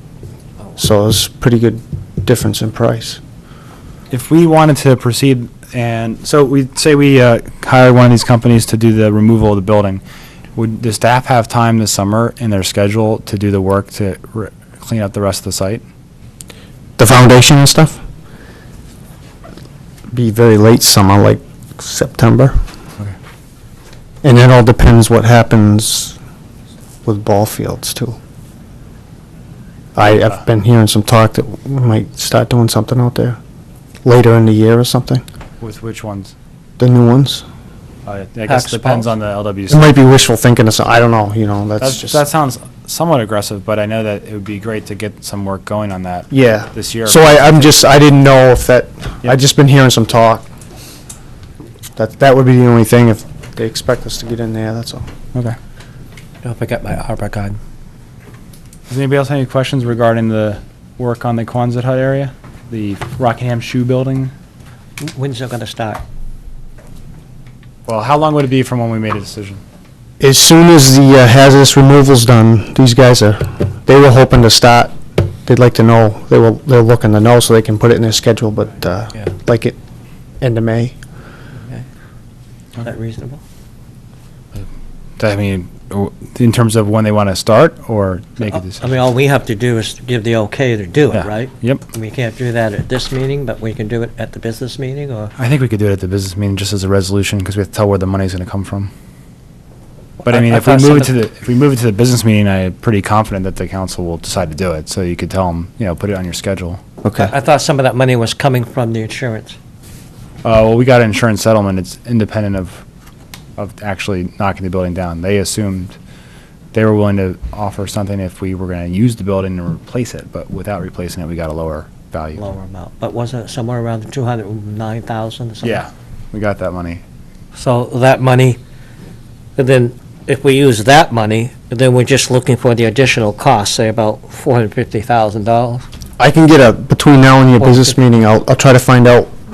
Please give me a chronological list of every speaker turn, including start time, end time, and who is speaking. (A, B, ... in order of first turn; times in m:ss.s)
0:00.7-0:03.2 A
0:04.1-0:10.0 B
0:10.5-0:15.8 B
0:17.0-0:18.0 A
0:20.1-0:22.6 A
0:24.2-0:26.2 A
0:27.0-0:28.2 A
0:30.0-0:33.4 A
0:34.0-0:35.2 A
0:35.6-0:36.3 B
0:36.8-0:37.4 A
0:38.0-0:39.9 B
0:38.4-0:39.1 C
0:39.7-0:42.2 A
0:41.8-0:47.7 B
0:46.3-0:50.5 A
0:52.0-0:55.1 A
0:56.4-0:57.6 C
0:58.9-1:04.3 B
1:05.0-1:06.0 C
1:07.9-1:09.6 B
1:10.2-1:19.8 A
1:20.4-1:21.0 A
1:22.8-1:23.4 C
1:25.2-1:28.8 B
1:28.5-1:35.3 C
1:31.1-1:31.8 B
1:35.4-1:38.9 B
1:40.2-1:46.8 B
1:40.2-1:41.1 C
1:47.0-1:47.3 A
1:47.2-1:49.6 C
1:50.4-1:52.8 B
1:53.6-1:56.0 B
1:56.7-2:02.4 B
2:02.4-2:05.8 C
2:05.6-2:07.0 B
2:07.5-2:08.6 C
2:09.6-2:15.8 C
2:16.2-2:19.3 A
2:17.6-2:18.0 C